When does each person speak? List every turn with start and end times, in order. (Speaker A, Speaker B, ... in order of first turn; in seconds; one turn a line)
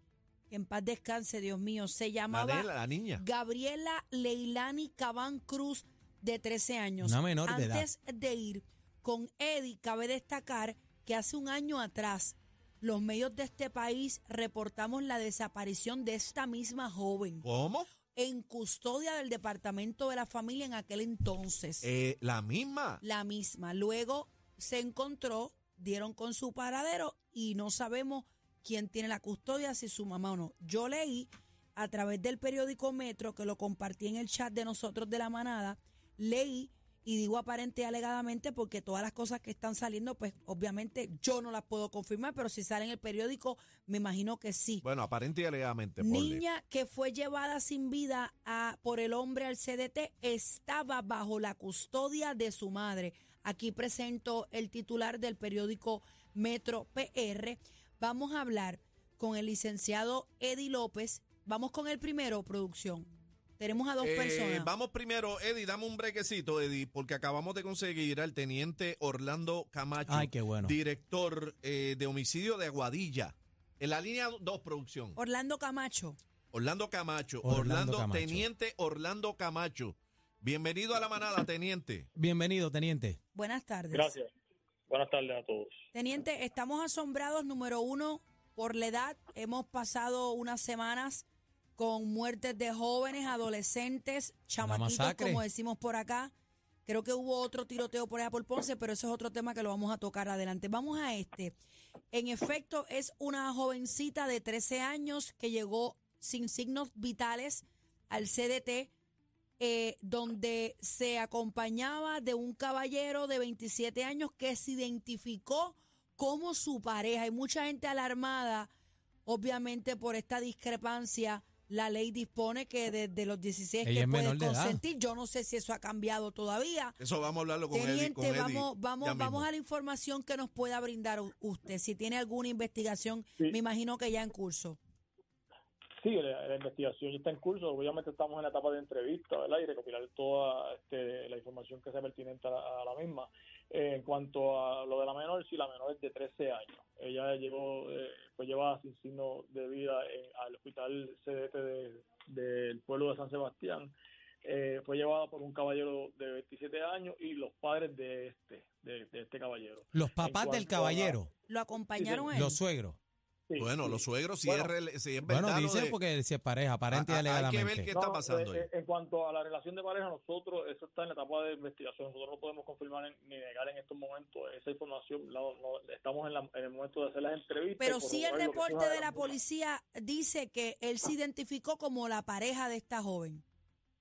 Speaker A: 0.5-17.4
Speaker B: 2.3-3.2
Speaker C: 7.0-7.9
Speaker B: 17.4-17.9
Speaker A: 18.1-21.9
Speaker B: 21.8-23.0
Speaker A: 23.0-44.8
Speaker B: 44.8-46.4
Speaker A: 46.0-64.7
Speaker B: 64.0-75.2
Speaker C: 70.1-70.8
Speaker A: 75.2-76.2
Speaker B: 76.5-82.1
Speaker C: 77.4-78.4
Speaker C: 82.2-83.2
Speaker A: 83.3-84.1
Speaker D: 83.9-84.3
Speaker D: 84.9-85.8
Speaker A: 85.9-91.2
Speaker A: 91.8-96.3
Speaker C: 94.6-95.4
Speaker A: 96.9-101.5
Speaker A: 102.1-108.9
Speaker A: 109.6-118.7
Speaker A: 119.2-127.0
Speaker C: 123.8-124.8
Speaker B: 127.0-129.5
Speaker A: 127.7-134.8
Speaker D: 136.0-153.9
Speaker D: 154.4-161.2
Speaker C: 159.9-161.3
Speaker A: 161.5-162.6
Speaker D: 162.0-162.6
Speaker C: 162.3-163.0
Speaker D: 163.5-164.7
Speaker B: 163.6-166.0
Speaker C: 165.3-167.9
Speaker B: 166.9-168.7
Speaker D: 167.9-179.3
Speaker A: 177.8-183.4